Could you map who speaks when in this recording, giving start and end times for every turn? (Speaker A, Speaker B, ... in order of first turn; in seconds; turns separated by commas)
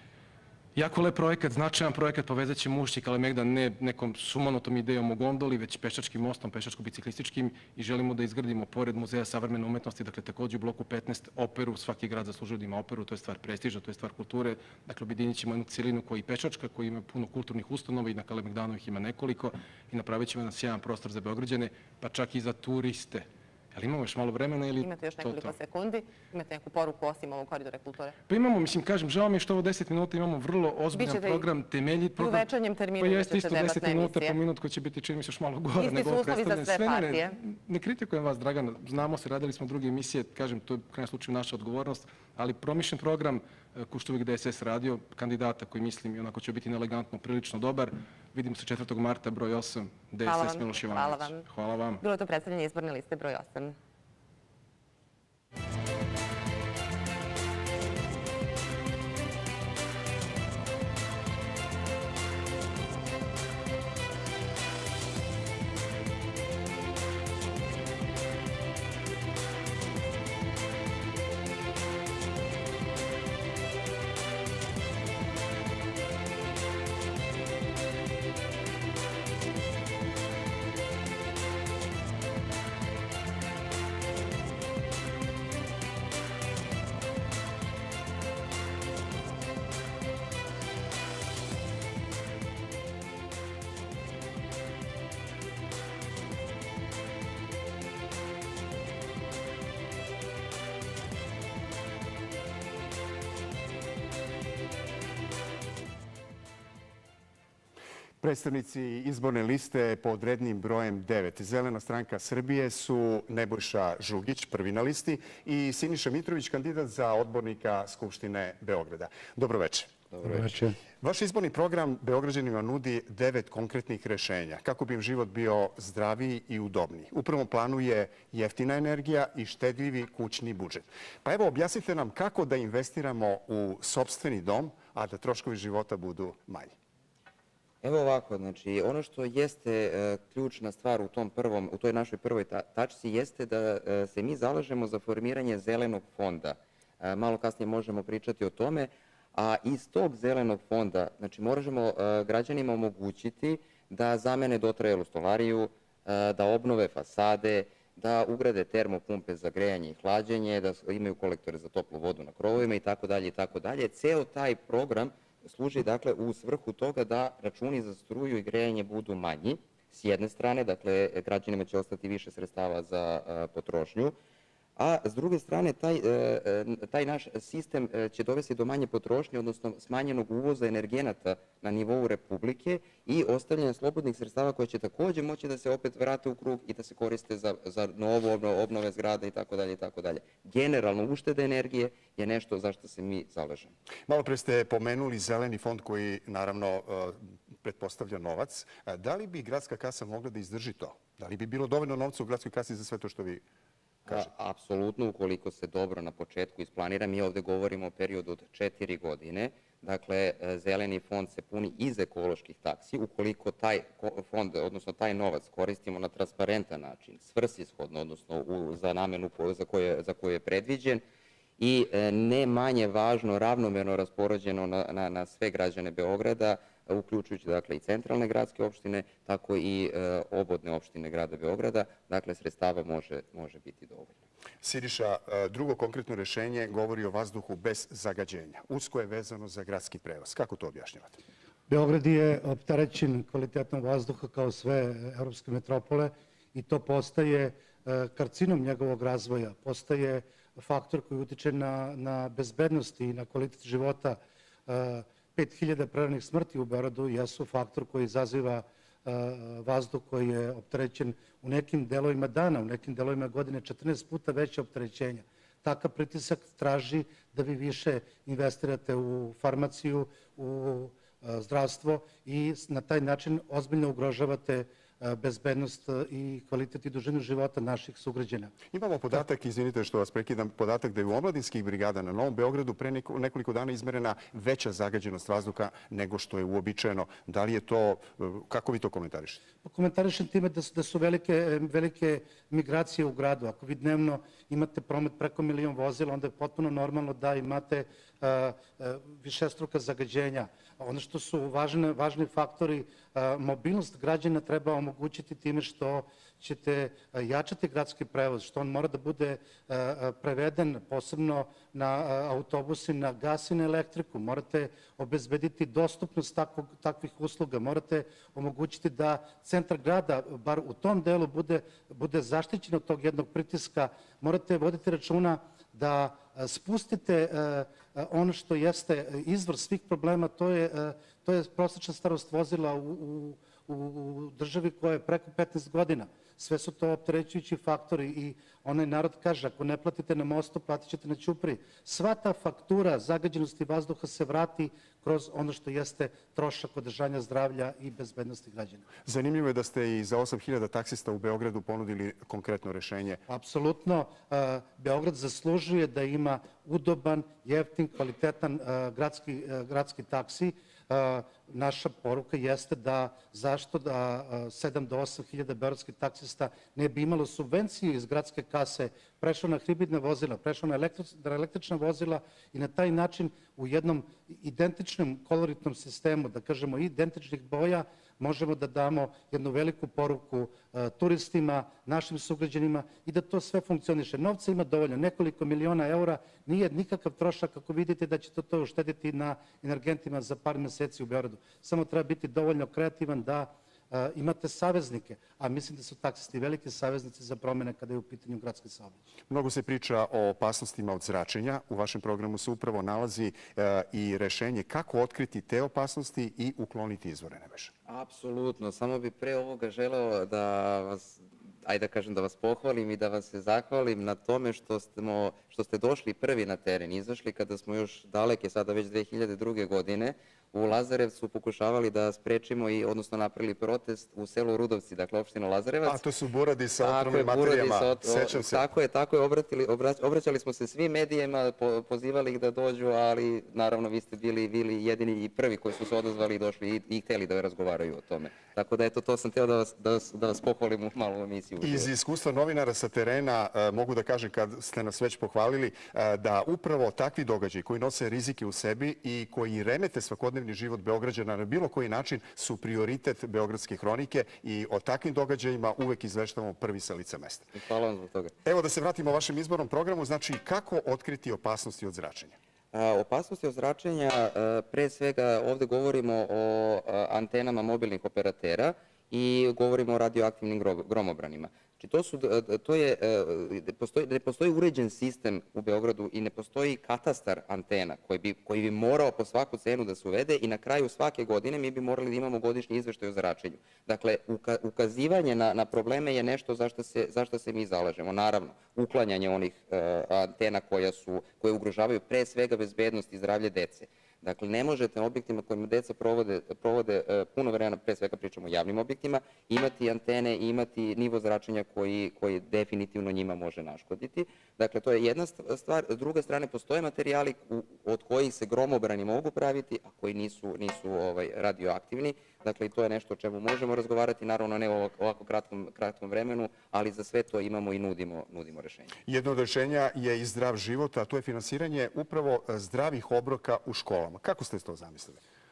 Speaker A: 0.8-25.6, Speaker B: 24.8-28.2, Speaker A: 28.3-52.0, Speaker B: 30.9-31.5, Speaker B: 32.2-34.4, Speaker B: 35.8-37.4, Speaker B: 50.2-51.5, Speaker B: 52.0-53.8, Speaker C: 108.2-120.1, Speaker D: 120.2-120.8, Speaker C: 121.0-136.7, Speaker E: 137.8-174.2, Speaker E: 174.8-193.7, Speaker C: 194.1-203.4, Speaker E: 204.1-221.0, Speaker E: 221.6-234.2, Speaker C: 234.6-241.2, Speaker D: 241.7-278.6, Speaker C: 278.7-289.4, Speaker D: 289.6-348.9, Speaker C: 349.0-353.2, Speaker D: 353.3-399.0, Speaker C: 399.3-407.7, Speaker E: 407.9-426.0, Speaker C: 425.8-428.6, Speaker E: 426.8-441.9, Speaker C: 441.6-457.5, Speaker E: 457.6-458.3, Speaker C: 458.5-462.4, Speaker E: 462.7-518.9, Speaker C: 519.1-525.2